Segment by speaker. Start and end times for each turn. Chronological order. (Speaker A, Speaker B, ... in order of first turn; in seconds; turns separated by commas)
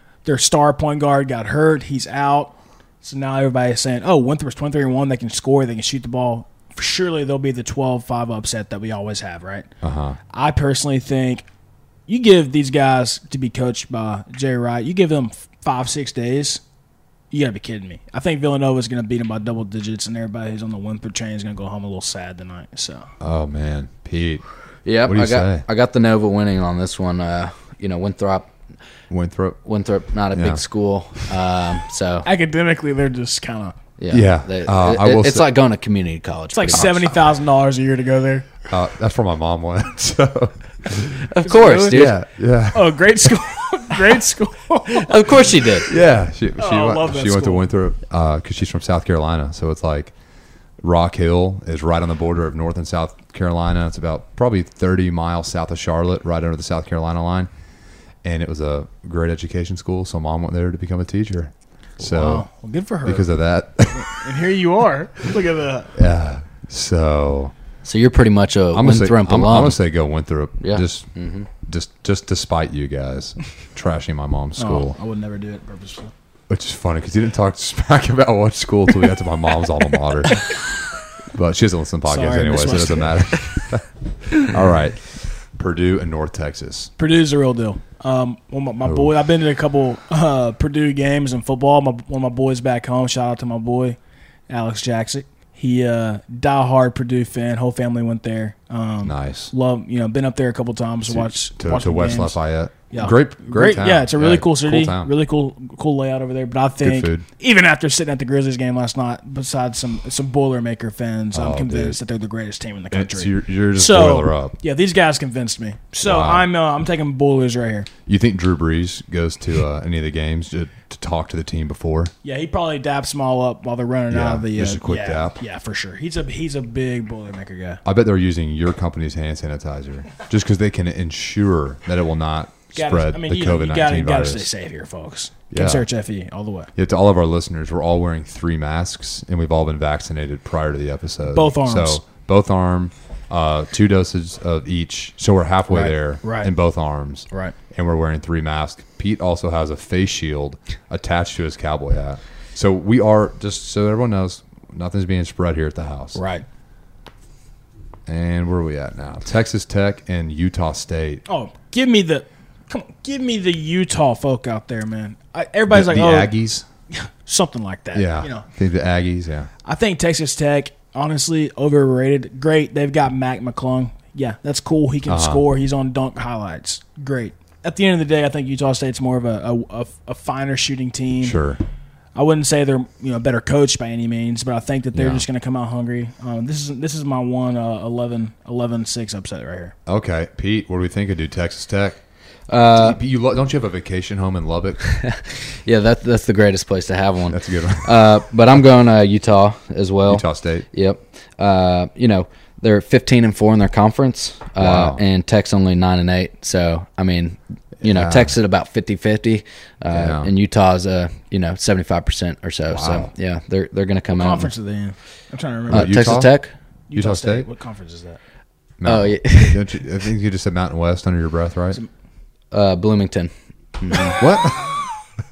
Speaker A: 0.2-9.7, Speaker B: 9.8-10.2, Speaker A: 10.3-11.5, Speaker A: 12.1-16.6, Speaker A: 17.3-23.1, Speaker B: 23.2-24.4, Speaker C: 24.9-28.5, Speaker B: 25.1-25.6, Speaker B: 29.1-29.6, Speaker C: 29.6-32.3, Speaker B: 30.3-30.6, Speaker A: 32.2-33.8, Speaker C: 34.0-37.1, Speaker B: 34.1-35.5, Speaker A: 36.5-38.6, Speaker B: 38.7-41.3, Speaker C: 41.2-42.2, Speaker A: 41.4-42.1, Speaker B: 41.9-43.5, Speaker A: 42.7-45.9, Speaker C: 44.9-45.9, Speaker B: 45.8-50.1, Speaker A: 46.6-47.7, Speaker B: 50.8-57.5, Speaker B: 58.2-62.5, Speaker A: 62.0-63.3, Speaker B: 63.0-64.2, Speaker A: 63.9-66.0, Speaker B: 66.0-67.5, Speaker C: 67.8-69.8, Speaker B: 68.7-75.0, Speaker C: 70.6-71.5, Speaker A: 74.6-76.1, Speaker B: 76.5-80.8, Speaker B: 81.3-86.9, Speaker A: 82.1-83.5, Speaker A: 87.0-94.0, Speaker B: 88.9-89.1, Speaker A: 94.5-102.4, Speaker B: 99.0-99.5, Speaker B: 101.1-105.1, Speaker A: 102.9-117.9, Speaker B: 106.8-107.3, Speaker B: 111.3-112.0, Speaker B: 112.9-114.5, Speaker B: 116.0-116.5, Speaker B: 118.1-122.1, Speaker A: 122.2-127.8, Speaker B: 124.1-125.4, Speaker B: 127.8-134.5, Speaker A: 132.8-136.7, Speaker B: 135.5-135.9, Speaker B: 136.8-156.2, Speaker A: 141.3-142.0, Speaker A: 145.7-146.5, Speaker A: 147.3-147.6, Speaker A: 156.2-156.4, Speaker B: 158.1-161.2, Speaker A: 161.3-166.3, Speaker B: 165.7-166.7, Speaker A: 166.9-168.5, Speaker B: 167.9-169.5, Speaker A: 169.6-181.4, Speaker B: 175.1-175.5, Speaker B: 181.2-181.6, Speaker A: 182.2-189.8, Speaker B: 184.9-185.3, Speaker B: 189.9-192.0, Speaker C: 192.5-193.0, Speaker B: 192.7-194.8, Speaker C: 194.8-214.5, Speaker B: 197.3-198.2, Speaker B: 200.1-200.7, Speaker B: 204.6-205.0, Speaker B: 207.8-208.3, Speaker B: 209.9-210.3, Speaker B: 212.7-213.1, Speaker A: 214.1-216.1, Speaker B: 215.7-216.3, Speaker C: 215.7-216.5, Speaker A: 216.9-218.2, Speaker B: 216.9-217.5, Speaker B: 218.8-221.8, Speaker C: 218.8-219.8, Speaker C: 222.5-224.2, Speaker B: 224.2-224.8